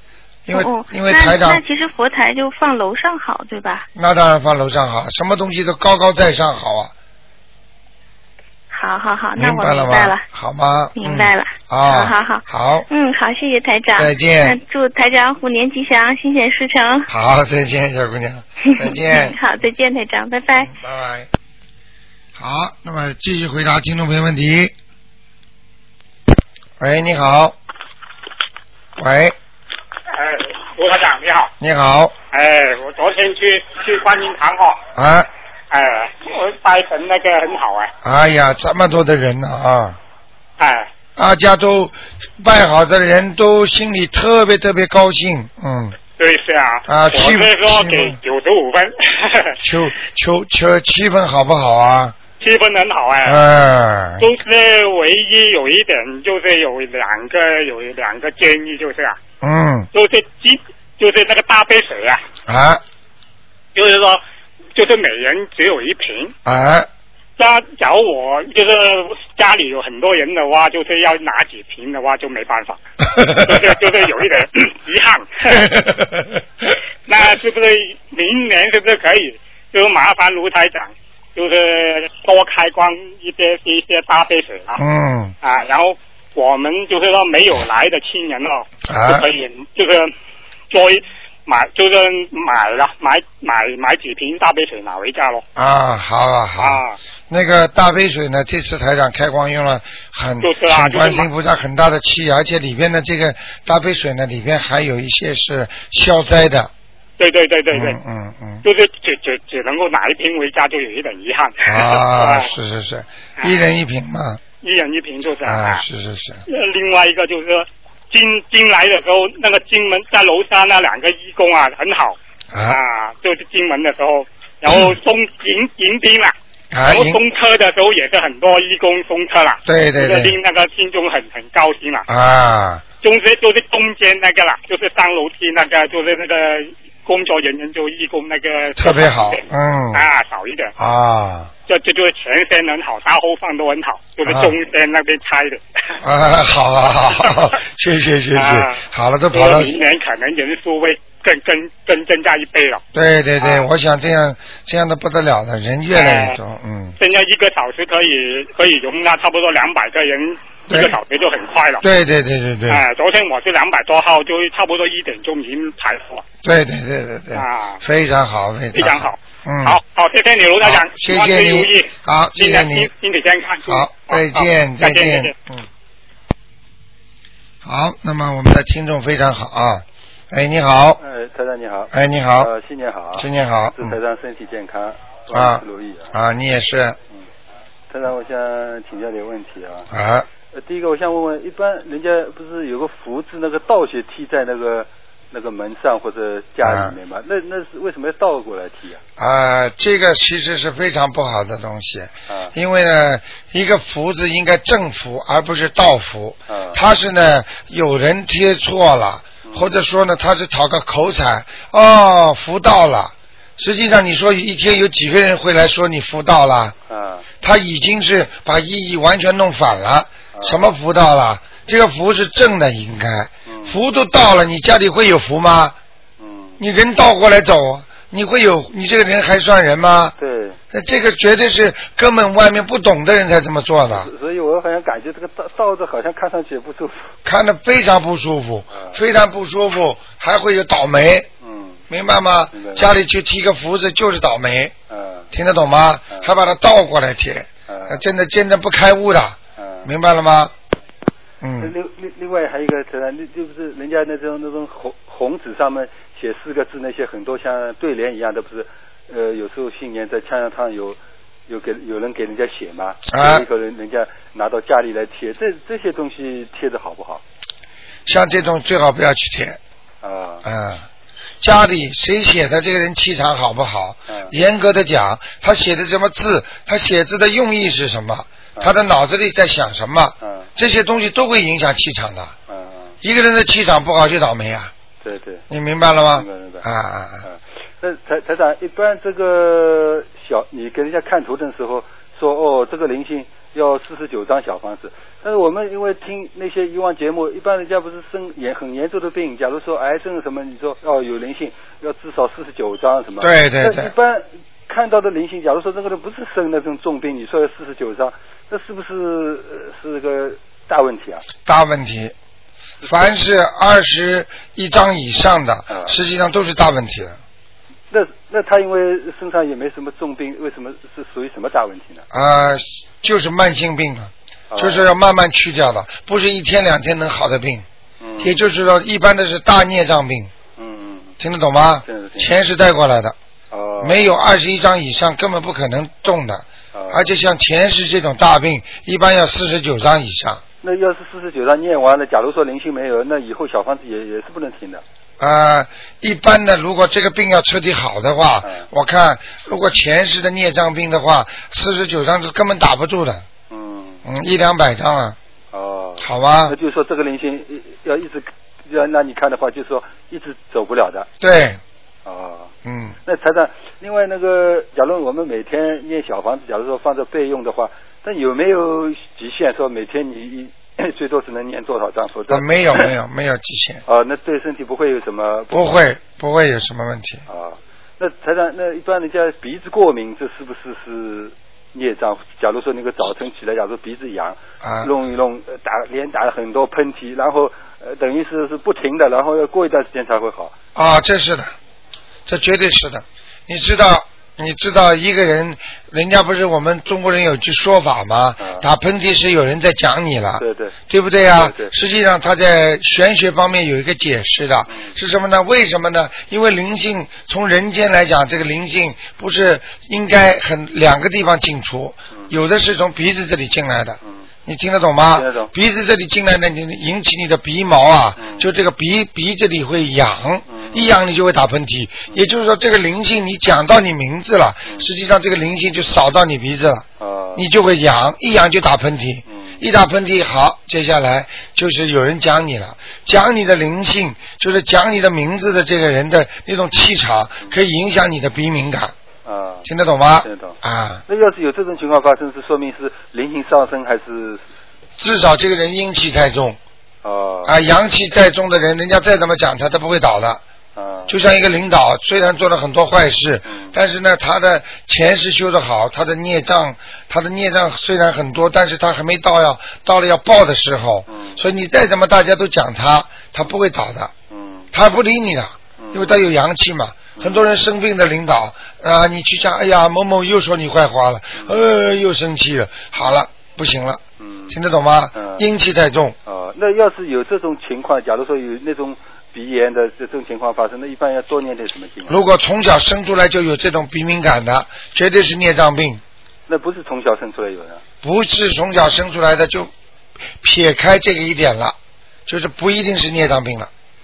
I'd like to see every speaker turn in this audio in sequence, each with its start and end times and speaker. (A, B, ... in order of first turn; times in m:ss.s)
0:00.4-0:01.6 A
0:00.5-0:03.9 B
0:03.9-0:06.9 A
0:08.7-0:10.2 B
0:09.4-0:12.8 A
0:11.0-0:17.1 B
0:13.9-0:14.6 A
0:17.1-0:19.3 A
0:18.6-0:20.7 B
0:20.6-0:21.3 A
0:22.4-0:24.7 A
0:26.8-0:27.5 A
0:29.0-0:29.3 A
0:30.1-0:31.5 C
0:31.6-0:32.1 A
0:32.3-0:34.8 C
0:35.0-0:35.3 A
0:35.7-0:37.9 C
0:38.0-0:40.0 A
0:40.6-0:40.9 C
0:41.2-0:46.0 A
0:46.2-0:49.6 C
0:46.9-0:48.2 A
0:49.6-0:52.2 A
0:52.4-0:53.4 C
0:53.2-0:54.3 A
0:54.2-0:59.2 C
0:59.4-0:59.9 A
0:59.9-1:02.2 C
1:02.5-1:02.8 A
1:03.7-1:04.2 C
1:04.7-1:06.3 C
1:06.4-1:06.9 A
1:07.4-1:12.8 C
1:13.1-1:13.7 A
1:13.3-1:15.7 C
1:15.6-1:15.9 A
1:17.1-1:24.8 C
1:24.8-1:25.3 A
1:25.4-1:30.1 C
1:28.9-1:29.2 A
1:30.7-1:35.4 C
1:35.6-1:46.7 A
1:36.6-1:37.0 C
1:40.4-1:41.3 C
1:47.2-1:48.0 C
1:47.7-1:48.6 A
1:48.6-1:52.5 C
1:51.6-1:54.4 A
1:54.6-1:55.8 C
1:55.4-1:56.4 A
1:56.5-2:06.3 C
2:02.5-2:02.8 A
2:04.7-2:04.9 A
2:06.7-2:07.2 A
2:06.8-2:12.1 C
2:09.6-2:10.3 A
2:12.1-2:12.8 A
2:13.0-2:20.7 C
2:18.8-2:20.0 A
2:20.8-2:21.5 A
2:21.7-2:25.6 C
2:24.2-2:24.5 A
2:26.0-2:29.8 A
2:28.3-2:28.8 C
2:29.3-2:32.8 C
2:32.9-2:37.0 A
2:33.4-2:33.7 C
2:35.9-2:36.4 C
2:37.0-2:41.8 C
2:40.7-2:41.0 A
2:41.8-2:42.8 A
2:42.7-2:46.2 C
2:46.4-2:49.8 A
2:47.3-2:47.8 C
2:48.7-2:55.3 C
2:50.6-2:52.9 A
2:53.6-2:55.6 A
2:57.6-3:01.0 A
3:01.0-3:06.1 D
3:01.9-3:02.5 A
3:03.1-3:04.0 A
3:05.3-3:07.0 A
3:07.9-3:09.9 D
3:09.9-3:10.3 A
3:10.5-3:19.0 D
3:16.6-3:17.0 A
3:19.2-3:36.8 A
3:26.5-3:26.8 D
3:29.4-3:29.7 D
3:36.9-3:37.2 D
3:37.4-3:45.7 A
3:40.3-3:40.6 D
3:43.5-3:43.8 D
3:46.2-3:46.6 D
3:46.6-3:50.1 A
3:50.2-3:50.6 D
3:50.7-3:54.1 A
3:53.9-3:57.1 D
3:57.2-4:01.3 A
3:58.7-3:59.0 D
4:01.4-4:01.8 D
4:01.9-4:04.7 A
4:02.5-4:02.9 D
4:04.9-4:05.3 D
4:05.3-4:10.5 A
4:07.7-4:08.0 D
4:09.6-4:09.9 D
4:11.4-4:11.7 A
4:11.6-4:27.2 D
4:23.1-4:23.4 A
4:28.0-4:29.6 A
4:30.0-4:30.4 D
4:30.4-4:30.9 A
4:31.4-4:42.3 A
4:40.2-4:40.5 D
4:42.5-4:43.0 D
4:43.0-4:44.7 A
4:45.0-4:45.4 D
4:45.5-4:47.2 A
4:46.1-4:46.6 D
4:47.2-5:11.2 D
5:03.2-5:03.9 A
5:11.4-5:12.1 A
5:12.8-5:13.1 D
5:12.8-5:17.2 A
5:15.7-5:16.0 D
5:17.9-5:22.0 D
5:22.1-5:27.6 A
5:24.5-5:24.9 D
5:28.0-5:28.4 D
5:28.2-5:30.3 A
5:30.6-5:31.1 D
5:31.2-5:33.2 A
5:31.8-5:32.3 D
5:33.5-5:34.1 D
5:33.8-5:40.4 A
5:36.7-5:37.1 D
5:40.6-5:44.8 D
5:45.2-5:53.2 A
5:53.5-5:54.0 D
5:54.0-5:55.2 A
5:55.5-6:01.1 D
5:56.0-5:56.6 A
6:01.2-6:01.6 A
6:02.0-6:02.5 D
6:02.6-6:03.0 A
6:03.0-6:12.9 D
6:12.3-6:13.8 A
6:13.8-6:15.8 D
6:15.5-6:17.2 A
6:17.3-6:30.5 D
6:24.6-6:24.9 A
6:30.7-6:31.5 A
6:32.2-7:18.9 A
6:38.4-6:38.6 D
6:40.4-6:40.8 D
6:41.3-6:41.7 D
6:55.1-6:55.5 D
6:58.2-6:58.5 D
7:00.5-7:00.9 D
7:07.0-7:07.4 D
7:09.3-7:09.6 D
7:19.2-7:19.6 D
7:19.6-7:21.0 A
7:20.2-7:20.6 D
7:21.1-7:24.4 D
7:25.0-7:26.6 A
7:27.0-7:27.5 D
7:27.4-7:30.4 A
7:30.8-7:31.1 D
7:31.1-7:44.1 A
7:33.5-7:33.7 D
7:41.1-7:41.4 D
7:44.3-7:44.7 D
7:44.7-7:56.2 A
7:45.8-7:46.2 D
7:47.2-7:47.5 D
7:54.2-7:54.6 D
7:55.1-7:55.4 D
7:56.2-8:02.2 D
8:02.1-8:06.0 A
8:06.5-8:07.8 D
8:08.0-8:09.7 A
8:10.4-8:11.8 A
8:12.3-8:13.7 A